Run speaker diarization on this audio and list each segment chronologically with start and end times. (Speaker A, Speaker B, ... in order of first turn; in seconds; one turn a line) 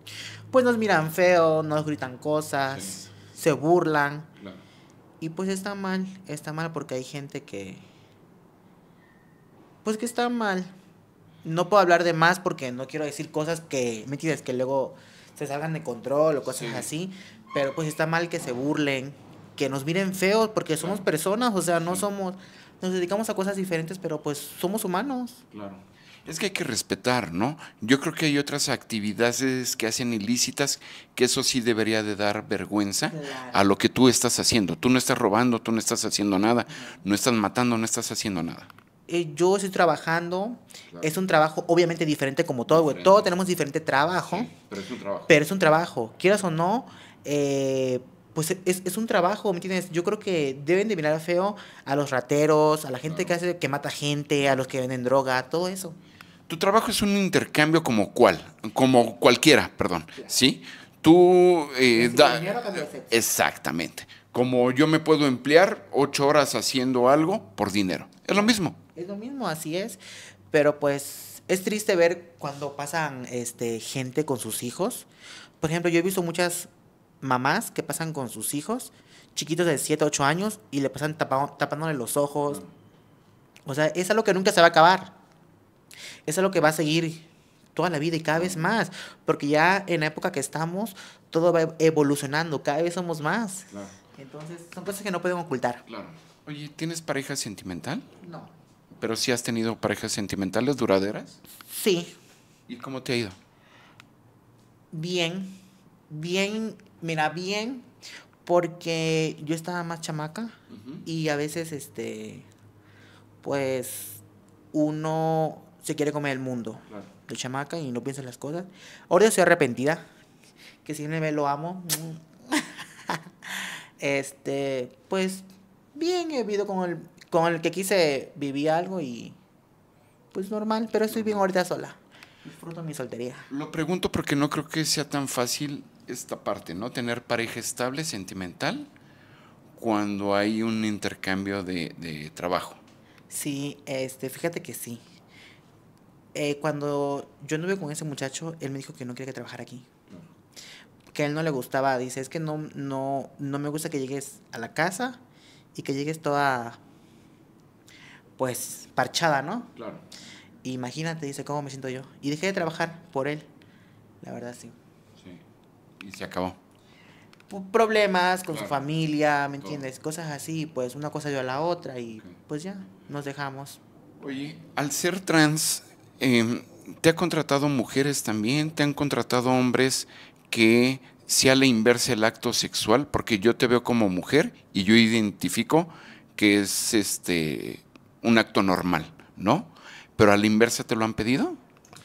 Speaker A: 0.5-4.3
Speaker B: 2.7-3.1
Speaker B: 4.4-4.6
Speaker A: 5.2-7.8
Speaker A: 9.8-10.7
Speaker A: 11.4-25.4
Speaker B: 16.5-16.9
Speaker B: 20.8-21.1
Speaker B: 25.5-38.7
Speaker A: 33.1-33.6
Speaker A: 36.7-37.0
Speaker A: 39.1-44.5
Speaker B: 42.7-43.3
Speaker B: 44.2-45.4
Speaker A: 45.3-56.0
Speaker B: 53.0-53.4
Speaker B: 56.5-68.8
Speaker A: 61.9-63.2
Speaker A: 68.3-70.0
Speaker A: 70.5-75.1
Speaker A: 75.6-76.7
Speaker A: 77.2-82.6
Speaker A: 83.7-85.1
Speaker A: 86.2-95.8
Speaker B: 88.3-88.7
Speaker B: 93.7-94.0
Speaker B: 95.8-98.1
Speaker A: 98.2-98.5
Speaker B: 98.9-101.4
Speaker A: 101.6-102.1
Speaker B: 102.7-103.4
Speaker A: 104.9-107.9
Speaker A: 108.4-112.5
Speaker B: 110.7-111.0
Speaker A: 113.4-120.1
Speaker A: 120.8-129.4
Speaker A: 130.3-133.5
Speaker B: 131.1-131.4
Speaker B: 133.5-138.9
Speaker B: 139.7-142.8
Speaker A: 143.3-145.0
Speaker A: 146.3-149.8
Speaker A: 151.1-155.2
Speaker A: 155.7-156.8
Speaker A: 158.4-159.7
Speaker B: 159.7-160.0
Speaker A: 160.6-163.5
Speaker A: 164.2-164.8
Speaker B: 165.2-165.4
Speaker B: 166.0-166.6
Speaker A: 167.5-173.8
Speaker B: 168.5-168.8
Speaker B: 174.2-191.6